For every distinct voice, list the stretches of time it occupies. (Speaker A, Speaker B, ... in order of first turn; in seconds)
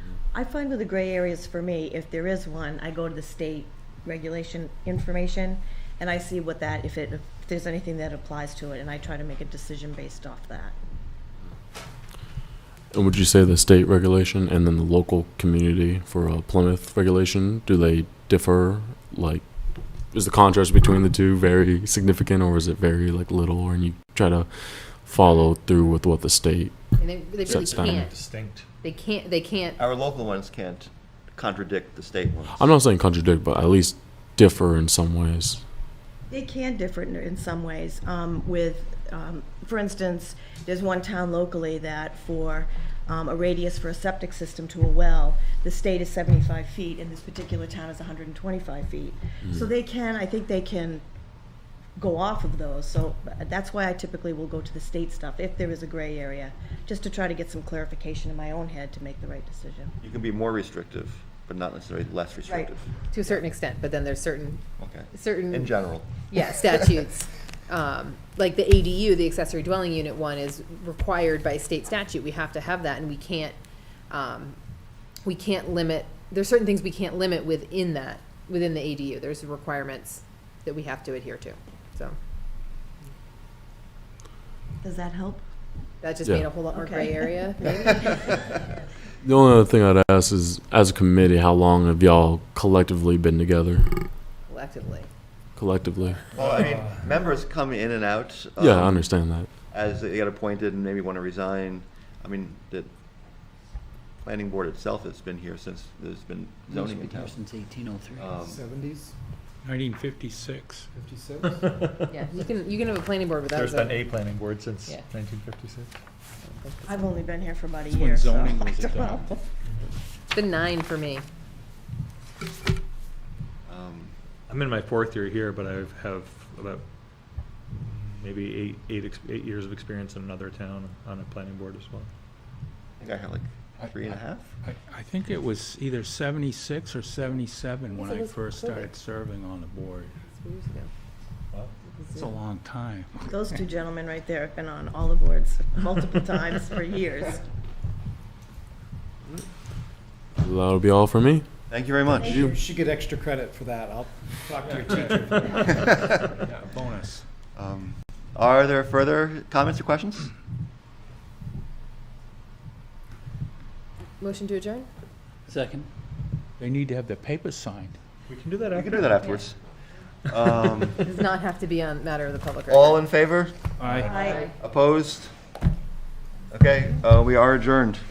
Speaker A: 0.3-10.7, 36.3-51.0, 52.0-60.0, 84.8-85.4, 86.7-88.4, 116.8-119.3, 143.3-147.4, 152.2-152.6, 174.0-174.4
Speaker B: 12.9-19.5, 20.1-28.1, 32.5-35.6, 49.4-49.7, 86.2-86.6, 89.2-94.1, 95.5-96.2, 98.6-99.5, 150.4-151.5
Speaker C: 26.9-28.1, 28.8-29.8, 63.1-73.6, 74.1-74.6, 75.2-82.2, 86.0-88.4, 94.5-95.1, 112.1-114.0, 116.5-117.1, 120.3-121.2, 137.9-138.9, 140.3-140.9, 141.9-142.3, 164.2-164.9, 171.1-173.0, 174.1-174.5
Speaker D: 27.5-28.7, 111.5-112.1, 113.5-115.9, 124.5-126.8, 127.7-132.1, 168.3-169.1
Speaker E: 29.8-32.7, 60.0-62.9, 64.8-66.1, 96.3-99.1, 99.7-102.9, 104.2-107.4, 108.2-108.6, 123.7-124.1, 133.0-134.5, 151.7-152.5, 157.5-160.3, 168.7-169.6, 170.2-171.0, 172.7-175.3, 176.5-178.0
Speaker F: 106.7-108.2, 165.5-165.9
Speaker G: 108.2-109.1, 110.9-111.9, 152.3-156.4
Speaker H: 109.6-110.8, 117.9-119.4, 134.6-140.2, 142.1-143.2, 154.7-157.2, 166.6-168.0, 173.8-174.2